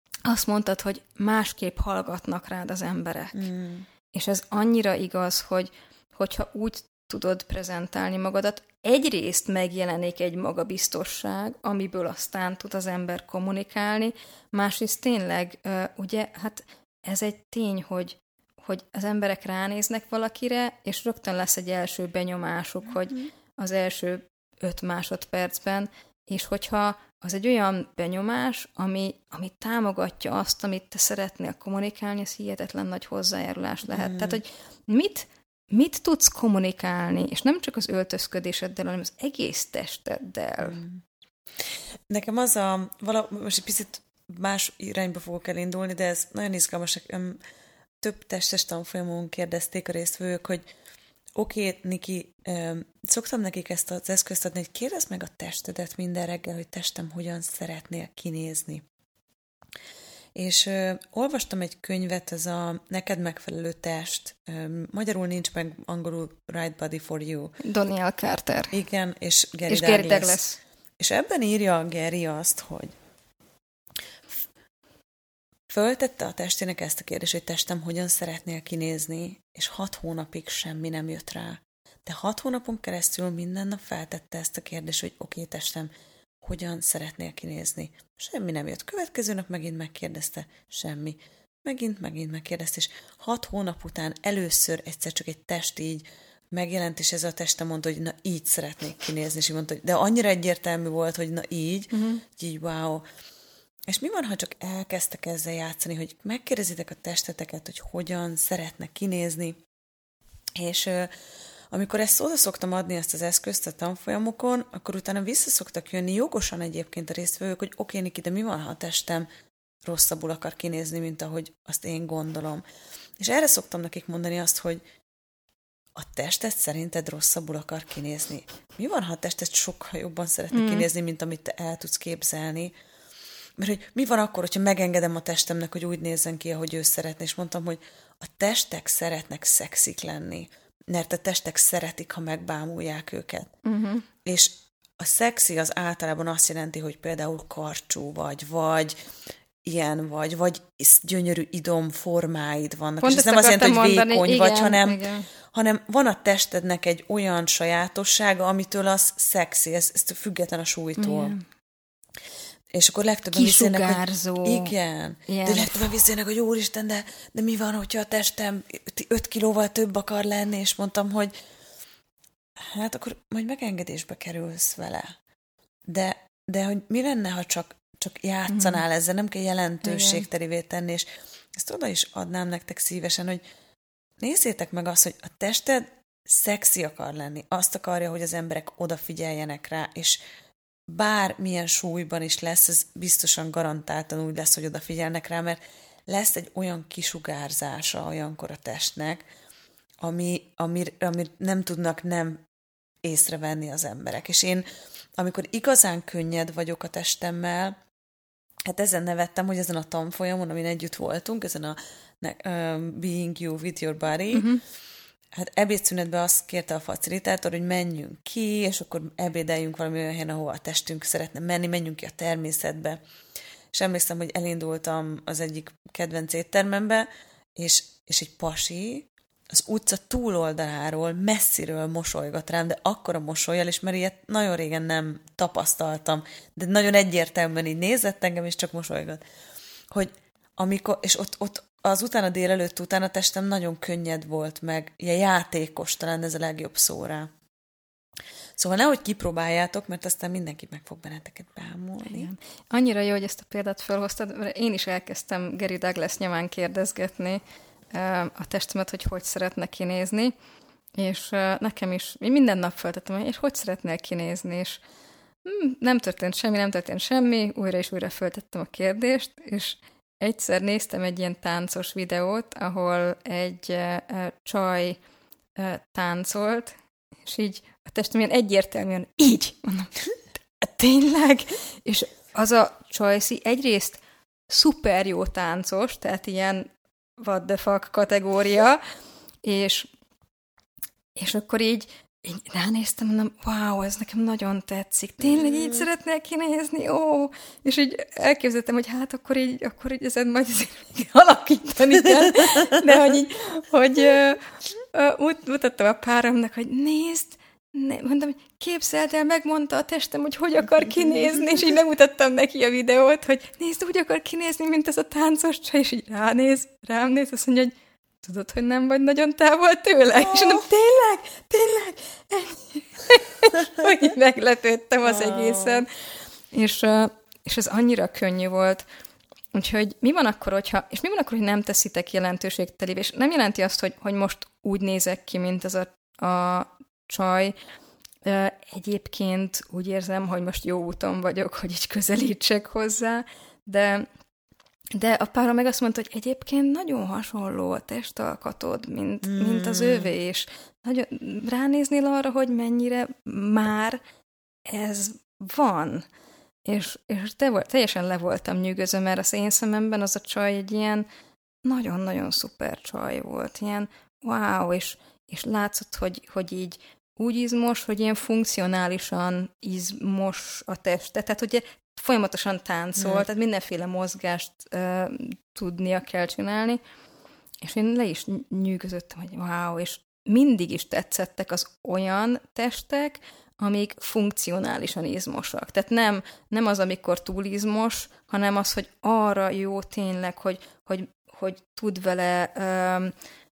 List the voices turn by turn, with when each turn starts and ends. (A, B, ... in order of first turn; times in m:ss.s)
0:00.2-0:03.4 A
0:03.3-0:03.9 B
0:04.1-0:40.8 A
0:33.9-0:34.4 B
0:40.6-0:41.0 B
0:41.6-0:47.4 B
0:48.0-0:50.6 B
0:51.4-0:58.8 B
1:00.3-1:07.6 B
1:07.6-1:08.7 A
1:08.7-1:10.4 B
1:09.7-1:10.6 A
1:11.0-1:12.9 B
1:15.7-1:25.9 B
1:26.4-1:43.0 B
1:41.9-1:42.2 A
1:43.9-1:49.6 B
1:50.6-1:51.1 B
1:51.7-1:59.3 B
1:59.8-2:02.6 B
2:03.2-2:04.8 B
2:05.9-2:12.7 B
2:10.5-2:10.8 A
2:13.6-2:23.5 B
2:23.6-2:24.0 A
2:24.2-2:28.9 B
2:29.6-2:41.3 B
2:33.0-2:35.3 A
2:41.0-2:41.4 A
2:42.7-2:51.3 B
2:43.3-2:44.7 A
2:45.3-2:45.9 A
2:52.6-2:55.1 B
2:55.9-3:03.4 B
2:58.5-2:58.8 A
2:59.8-3:00.2 A
3:04.2-3:10.2 B
3:10.9-3:19.2 B
3:20.0-3:22.4 B
3:23.0-3:24.6 B
3:25.2-3:27.8 B
3:28.7-3:34.5 B
3:34.3-3:34.6 A
3:35.3-3:43.0 B
3:43.7-3:59.2 B
3:59.9-4:07.3 B
4:08.6-4:12.3 B
4:12.0-4:17.4 A
4:17.9-4:20.3 A
4:21.0-4:24.8 A
4:25.4-4:35.0 A
4:35.6-4:36.7 A
4:37.2-4:40.0 A
4:40.6-4:46.7 A
4:47.2-4:48.8 A
4:49.4-4:49.9 A
4:51.2-5:25.9 A
4:55.2-4:55.8 B
5:20.2-5:20.6 B
5:25.0-5:25.8 B
5:26.5-5:28.8 A
5:29.5-5:37.5 A
5:38.2-5:44.1 A
5:44.9-5:54.0 A
5:49.2-5:50.1 B
5:54.6-5:56.0 A
5:56.6-6:01.1 A
6:01.6-6:16.8 A
6:13.0-6:13.2 B
6:17.6-6:33.1 A